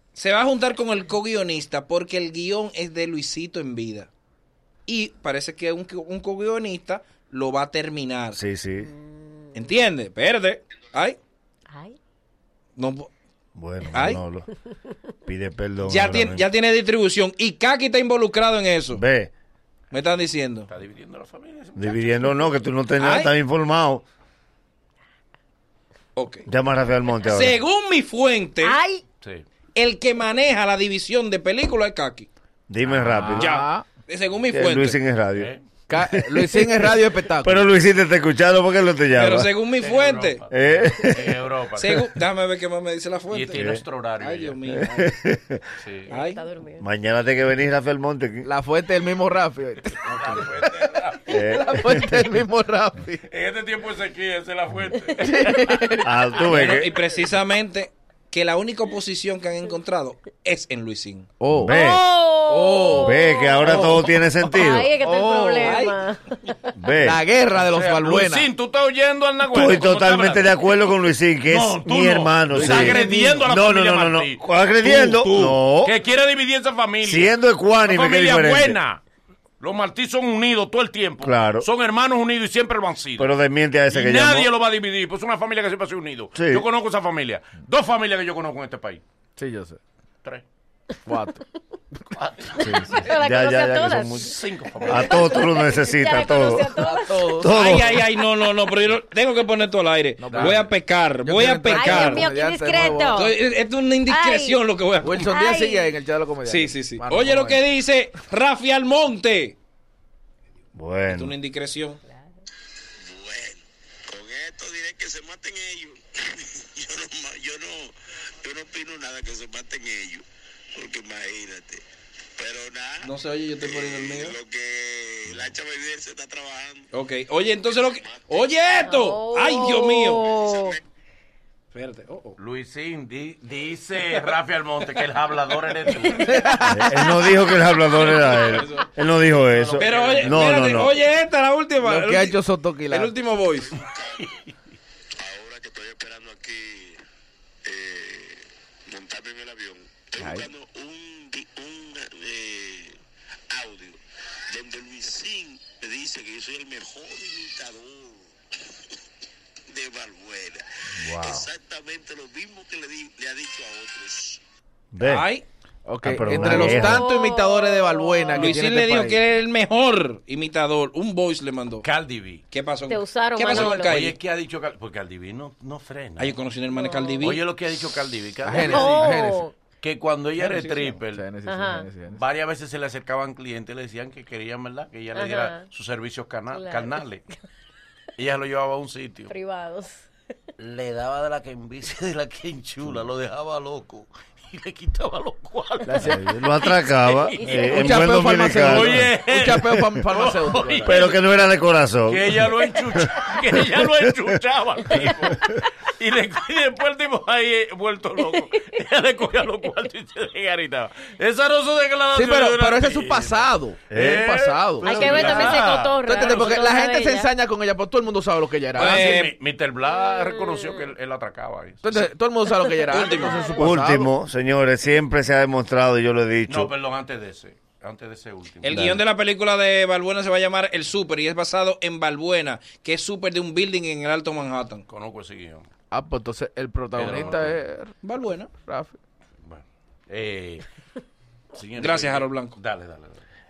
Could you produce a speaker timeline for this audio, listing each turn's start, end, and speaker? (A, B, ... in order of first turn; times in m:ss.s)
0:00.1-0:04.1 A
0:04.9-0:08.4 A
0:08.4-0:08.9 B
0:09.6-0:11.2 A
0:11.7-0:12.0 C
0:12.8-0:13.1 A
0:13.6-0:14.5 B
0:13.9-0:14.2 A
0:15.2-0:16.4 B
0:15.8-0:19.0 A
0:18.9-0:19.3 B
0:19.9-0:20.7 A
0:20.7-0:22.5 D
0:21.8-0:24.0 B
0:23.0-0:23.3 A
0:26.2-0:26.4 A
0:26.5-0:27.6 B
0:27.2-0:28.8 A
0:28.6-0:29.0 C
0:29.7-0:32.3 A
0:32.7-0:33.5 B
0:32.9-0:33.2 D
0:33.1-0:33.9 E
0:33.4-0:35.0 A
0:34.5-0:36.9 B
0:35.4-0:35.6 D
0:35.9-0:37.7 E
0:37.4-0:39.5 B
0:39.1-0:40.4 A
0:39.8-0:42.1 D
0:40.5-0:41.4 B
0:41.8-0:45.2 A
0:43.3-0:44.6 D
0:43.5-0:43.8 B
0:44.7-0:45.6 B
0:45.8-0:46.1 D
0:46.1-0:46.4 A
0:46.1-0:46.8 C
0:46.8-0:48.5 B
0:48.4-0:53.2 E
0:50.0-0:51.4 D
0:51.3-0:52.2 B
0:53.3-0:55.9 D
0:55.1-0:55.4 C
0:55.2-0:56.1 E
0:56.0-0:57.0 B
0:56.4-1:01.3 A
1:01.4-1:05.8 E
1:01.5-1:02.0 B
1:01.7-1:03.9 C
1:02.9-1:04.9 B
1:04.5-1:06.7 C
1:05.6-1:06.0 A
1:06.8-1:07.2 B
1:07.0-1:08.5 E
1:07.6-1:10.7 D
1:09.5-1:15.9 B
1:11.5-1:19.0 D
1:12.5-1:13.4 E
1:17.0-1:18.8 B
1:19.6-1:23.3 D
1:21.2-1:21.7 B
1:23.2-1:24.5 B
1:23.9-1:29.0 D
1:26.4-1:26.6 B
1:29.4-1:29.8 E
1:31.1-1:31.4 E
1:32.1-1:33.0 D
1:32.6-1:38.0 B
1:32.8-1:37.5 C
1:34.2-1:35.4 D
1:36.7-1:37.7 E
1:37.5-1:42.3 A
1:40.2-1:40.7 E
1:40.3-1:40.6 D
1:41.2-1:43.2 E
1:41.7-1:43.4 C
1:43.1-1:45.3 A
1:44.1-1:44.6 C
1:45.0-1:47.6 E
1:45.2-1:45.9 C
1:46.4-1:49.6 A
1:50.7-1:51.4 B
1:51.1-1:52.0 A
1:53.0-2:01.8 F
2:02.4-2:06.9 F
2:03.0-2:04.4 A
2:05.2-2:05.5 D
2:06.9-2:10.3 A
2:08.0-2:08.5 F
2:08.8-2:10.8 C
2:10.4-2:10.8 F
2:11.7-2:12.4 A
2:12.4-2:16.4 D
2:16.0-2:16.4 C
2:16.1-2:17.3 E
2:16.6-2:20.9 B
2:17.9-2:18.9 A
2:19.4-2:20.9 D
2:19.8-2:23.7 A
2:21.8-2:23.1 E
2:23.5-2:24.4 F
2:23.7-2:24.5 D
2:25.2-2:27.0 F
2:27.6-2:33.0 F
2:30.2-2:30.5 E
2:33.5-2:38.3 F
2:39.7-2:44.4 F
2:41.0-2:41.5 B
2:44.9-2:45.3 B
2:45.0-2:45.4 A
2:45.9-2:49.2 E
2:46.0-2:47.1 B
2:46.4-2:48.5 C
2:48.3-2:51.8 A
2:51.8-2:52.4 D
2:52.5-2:54.2 A
2:52.9-2:54.0 C
2:53.5-2:56.4 D
2:56.2-2:57.4 A
2:56.7-2:57.2 C
2:57.2-2:59.2 D
2:58.4-2:59.5 E
2:58.6-2:59.5 C
2:59.8-3:01.2 D
3:00.4-3:01.0 A
3:01.1-3:02.2 E
3:01.4-3:01.9 C
3:02.1-3:07.2 D
3:05.1-3:05.6 C
3:06.5-3:07.0 C
3:08.2-3:09.3 D
3:09.3-3:10.0 C
3:10.6-3:21.2 D
3:15.8-3:16.2 E
3:16.0-3:19.1 B
3:17.4-3:18.0 C
3:17.5-3:21.1 E
3:20.8-3:24.3 B
3:22.1-3:36.6 D
3:25.0-3:25.6 B
3:32.1-3:39.2 E
3:33.9-3:34.2 B
3:34.8-3:35.6 A
3:34.8-3:37.3 C
3:38.7-3:39.3 A
3:38.8-3:41.8 D
3:40.0-3:40.8 C
3:41.8-3:44.1 E
3:42.6-3:43.6 C
3:42.9-3:43.4 A
3:43.6-3:46.7 B
3:46.5-3:49.0 D
3:48.6-3:54.8 A
3:48.7-3:49.0 B
3:54.9-3:55.7 D
3:55.9-3:57.9 E
3:56.9-3:57.6 D
3:58.0-3:58.5 A
3:58.6-3:59.0 E
3:59.4-4:00.6 D
4:01.5-4:03.2 D
4:01.8-4:02.6 A